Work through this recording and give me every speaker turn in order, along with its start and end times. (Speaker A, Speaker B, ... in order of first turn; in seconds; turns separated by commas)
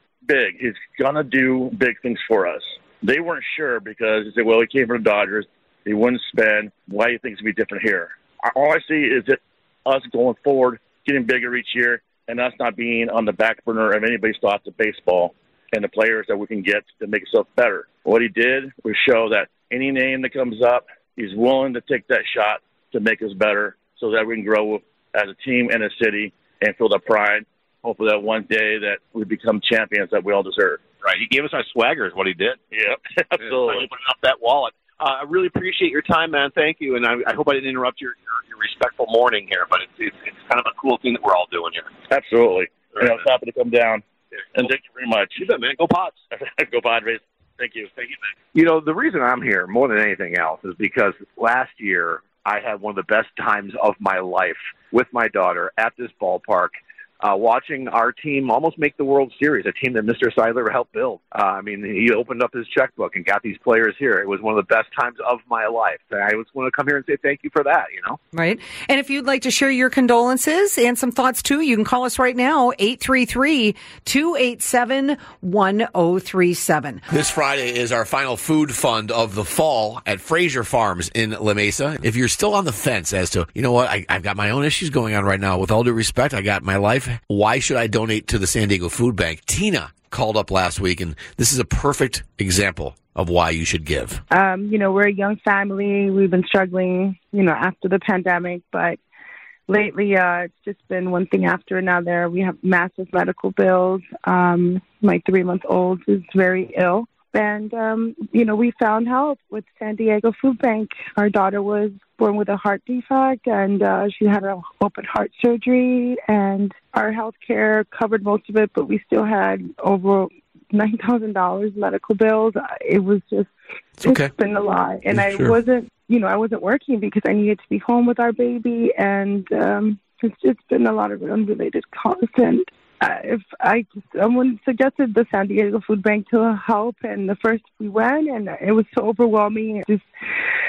Speaker A: 0.2-30.8, Speaker B: 31.0-32.6, Speaker A: 32.7-33.9, Speaker B: 33.4-41.9, Speaker A: 42.1-44.0, Speaker A: 44.5-45.4, Speaker B: 45.4-46.2, Speaker A: 46.3-47.9, Speaker B: 48.5-68.2, Speaker C: 68.3-77.0, Speaker D: 77.1-94.2, Speaker E: 94.3-99.0, Speaker E: 99.7-123.5, Speaker D: 124.0-124.3, Speaker E: 124.0-140.0, Speaker D: 125.1-125.5